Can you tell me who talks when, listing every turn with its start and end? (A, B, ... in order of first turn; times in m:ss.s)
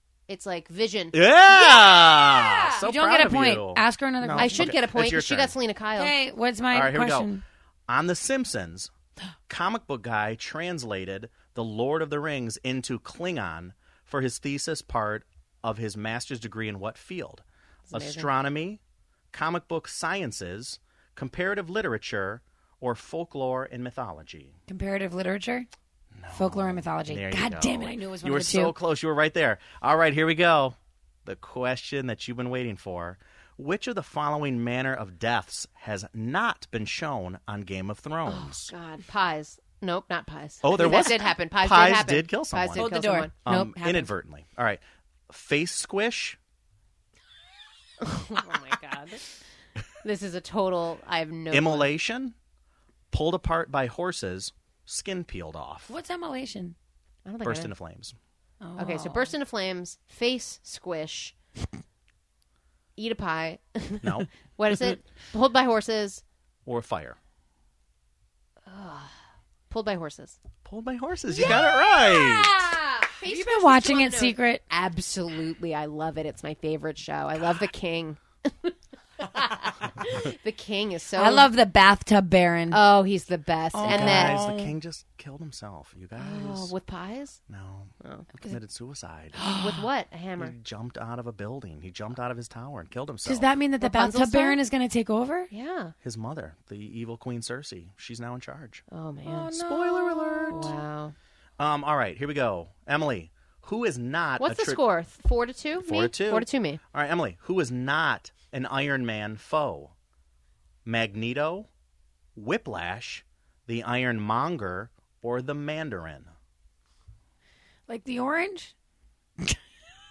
0:00.3-0:02.6 A
0:01.1-0:05.5 B
0:02.8-0:04.7 C
0:04.4-0:06.1 A
0:06.0-0:07.4 C
0:06.7-0:07.3 B
0:07.9-0:08.9 B
0:09.5-0:18.8 B
0:17.9-0:18.3 A
0:19.3-0:24.5 B
0:24.7-0:25.7 C
0:26.1-0:38.7 B
0:26.3-0:28.7 C
0:38.3-0:44.1 A
0:40.6-0:42.9 B
0:42.8-0:43.3 C
0:43.4-0:46.4 B
0:48.0-0:49.3 A
0:50.0-0:51.9 A
0:51.5-0:52.3 B
0:53.1-0:55.9 B
0:55.9-0:56.7 C
0:57.2-0:57.7 A
0:57.4-0:58.1 B
0:58.6-0:59.3 C
0:58.8-1:01.4 A
1:03.0-1:06.2 A
1:04.0-1:04.3 B
1:06.6-1:07.2 B
1:08.6-1:09.1 A
1:09.7-1:10.4 A
1:10.6-1:12.5 B
1:11.3-1:21.5 A
1:13.2-1:14.6 C
1:21.2-1:22.8 C
1:22.7-1:24.4 A
1:23.7-1:24.7 C
1:23.8-1:26.7 B
1:26.2-1:27.4 A
1:27.5-1:29.4 B
1:28.0-1:28.3 A
1:29.3-1:29.8 C
1:29.5-1:30.5 A
1:30.4-1:33.5 B
1:33.2-1:35.5 C
1:33.8-1:34.6 A
1:35.5-1:35.9 A
1:36.0-1:38.8 B
1:38.9-1:39.5 A
1:39.2-1:40.7 C
1:39.5-1:40.7 B
1:40.5-1:41.1 A
1:41.6-1:44.8 B
1:44.4-1:46.8 A
1:45.8-1:49.9 B
1:50.8-1:51.7 B
1:52.4-1:56.3 B
1:57.9-1:58.7 C